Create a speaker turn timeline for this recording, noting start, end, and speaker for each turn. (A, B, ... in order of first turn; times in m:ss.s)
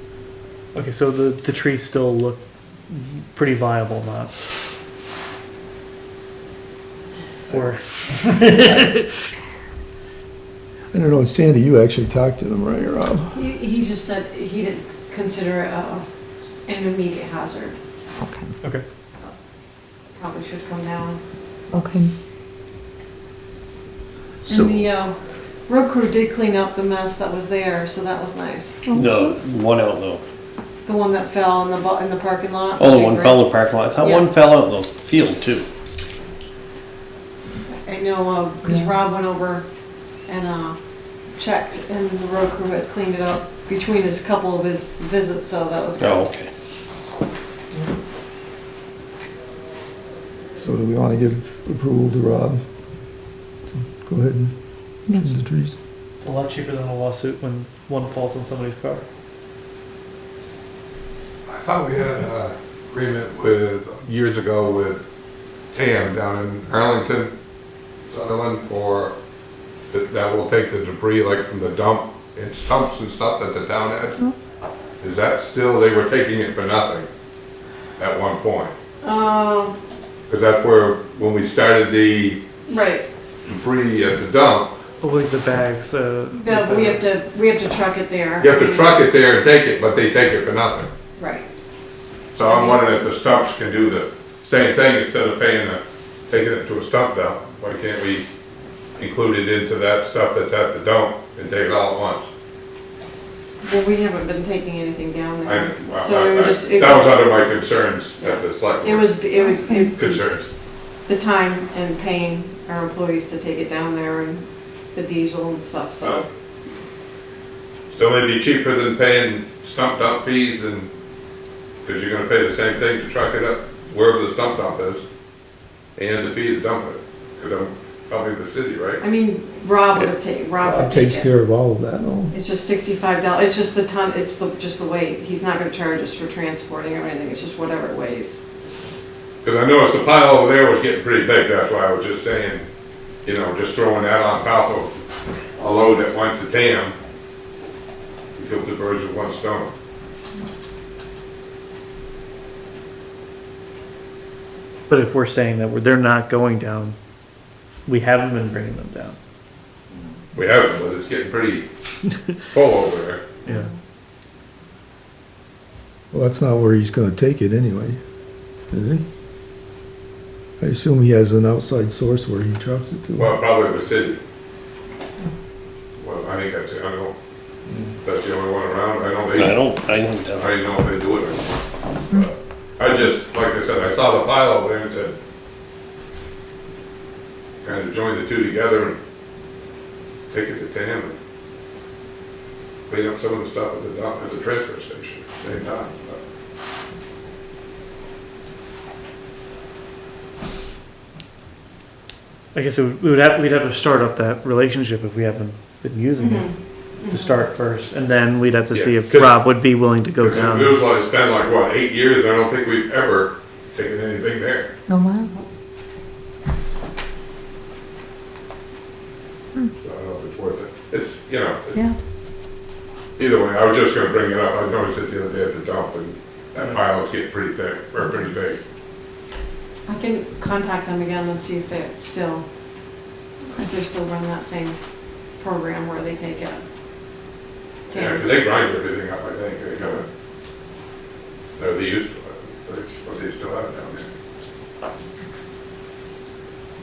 0:00.7-0:04.3 A
0:07.5-0:09.1 A
0:10.9-0:13.3 B
0:13.3-0:16.0 C
0:16.7-0:17.8 C
0:18.2-0:18.5 D
0:20.2-0:21.2 C
0:21.7-0:22.1 D
0:24.5-0:25.2 C
0:25.7-0:28.9 C
0:28.9-0:29.4 D
0:28.9-0:30.2 E
0:30.9-0:33.4 C
0:32.8-0:35.7 E
0:34.0-0:34.3 C
0:37.7-0:39.6 C
0:40.3-0:40.8 C
0:41.4-0:46.3 C
0:46.0-0:46.5 E
0:50.6-0:52.6 B
0:53.7-0:54.5 B
0:55.1-0:55.4 D
0:55.2-0:55.8 B
0:56.2-0:59.0 A
1:01.5-1:05.0 F
1:05.8-1:07.3 F
1:08.1-1:09.2 F
1:09.9-1:14.2 F
1:15.0-1:17.1 F
1:18.0-1:18.7 F
1:19.0-1:19.8 C
1:20.3-1:22.4 F
1:22.7-1:23.1 C
1:23.5-1:24.7 F
1:25.0-1:27.1 A
1:26.3-1:29.0 C
1:28.4-1:30.9 F
1:31.2-1:31.5 C
1:32.4-1:38.2 F
1:32.4-1:32.8 C
1:39.0-1:42.3 F
1:43.6-1:47.3 C
1:45.5-1:49.2 F
1:48.2-1:50.2 C
1:49.6-1:49.8 D
1:50.0-1:50.5 F
1:51.1-1:56.3 C
1:57.9-2:00.9 F
2:01.8-2:05.1 F
2:06.0-2:09.0 F
2:09.0-2:11.3 C
2:10.6-2:12.3 B
2:12.3-2:18.4 C
2:19.4-2:22.7 F
2:23.2-2:24.9 F
2:25.6-2:27.0 F
2:28.4-2:29.7 F
2:34.9-2:37.0 A
2:37.9-2:39.2 A
2:40.4-2:41.7 F
2:42.5-2:43.4 F
2:43.4-2:43.7 A
2:46.1-2:48.0 B
2:48.7-2:49.0 B
2:50.6-2:53.4 B
2:53.2-2:54.2 F
2:56.0-2:57.1 F
2:58.0-2:59.7 F
2:59.3-3:00.6 E
3:00.4-3:05.2 F
3:07.6-3:09.0 F
3:10.3-3:11.2 F
3:12.9-3:16.2 F
3:22.5-3:26.5 A
3:26.2-3:27.3 C
3:27.1-3:30.9 A
3:28.7-3:29.4 F
3:30.2-3:34.7 F
3:34.9-3:35.3 D
3:39.8-3:41.8 F
3:43.2-3:48.6 F
3:49.9-3:52.5 C
3:53.5-3:54.8 C
3:55.4-3:56.6 C
3:57.9-3:58.3 C
3:57.9-4:00.1 F
4:01.6-4:04.1 F